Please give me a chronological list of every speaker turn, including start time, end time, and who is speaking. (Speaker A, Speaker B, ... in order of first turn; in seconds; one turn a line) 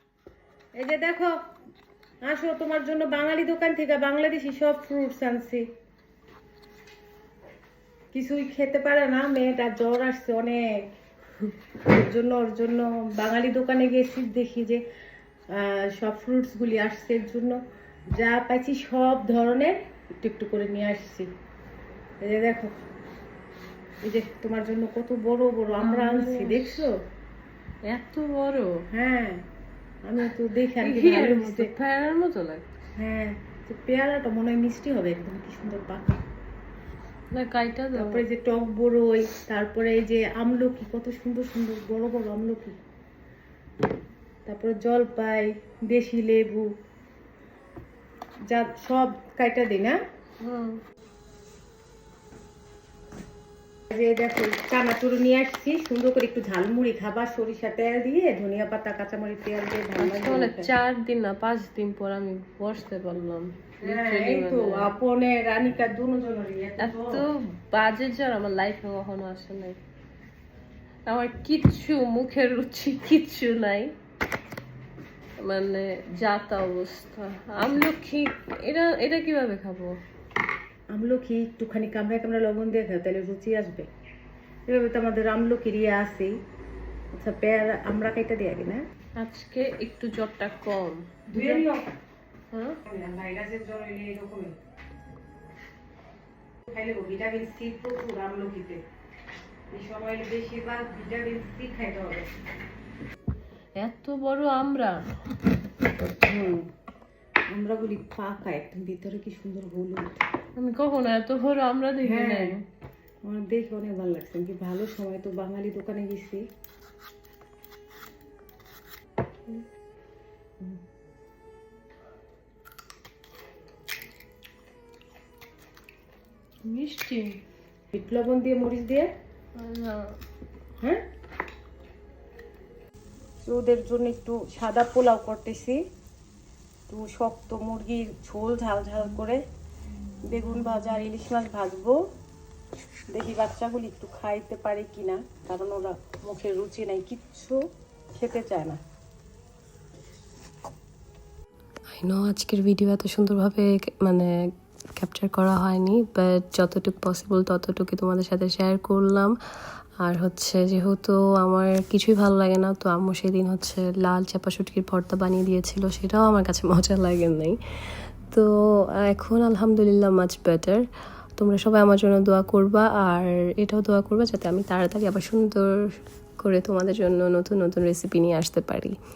Speaker A: 0.8-1.4
Speaker A: 2.2-5.7
Speaker A: 8.1-10.6
Speaker A: 11.8-14.8
Speaker A: 15.5-17.6
Speaker A: 18.1-21.3
Speaker A: 22.2-22.7
Speaker A: 24.0-26.9
Speaker B: 25.8-26.9
Speaker B: 27.8-28.8
Speaker A: 28.9-29.4
Speaker A: 30.1-31.7
Speaker B: 30.8-32.7
Speaker A: 33.0-36.2
Speaker B: 37.3-38.2
Speaker A: 38.0-42.8
Speaker A: 44.5-46.7
Speaker A: 48.5-50.0
Speaker B: 50.4-50.8
Speaker A: 53.9-60.7
Speaker B: 60.0-64.9
Speaker A: 63.8-67.2
Speaker B: 66.8-69.8
Speaker B: 71.1-73.9
Speaker B: 75.4-80.0
Speaker A: 80.9-83.9
Speaker A: 84.7-86.3
Speaker A: 87.2-88.8
Speaker B: 89.2-91.7
Speaker A: 91.3-91.9
Speaker B: 92.5-92.8
Speaker A: 92.9-94.5
Speaker A: 96.7-98.8
Speaker A: 99.7-102.3
Speaker B: 103.8-105.0
Speaker A: 106.2-106.7
Speaker A: 107.5-110.2
Speaker B: 110.6-112.6
Speaker A: 112.0-112.6
Speaker A: 113.3-116.4
Speaker B: 126.6-127.4
Speaker A: 127.9-129.1
Speaker B: 129.6-130.2
Speaker A: 133.4-135.8
Speaker A: 136.9-139.4
Speaker A: 140.3-142.0
Speaker A: 143.1-147.6
Speaker A: 148.2-148.8
Speaker C: 151.9-159.3
Speaker C: 160.0-167.6
Speaker C: 169.0-170.8
Speaker C: 171.4-175.7
Speaker C: 176.4-179.0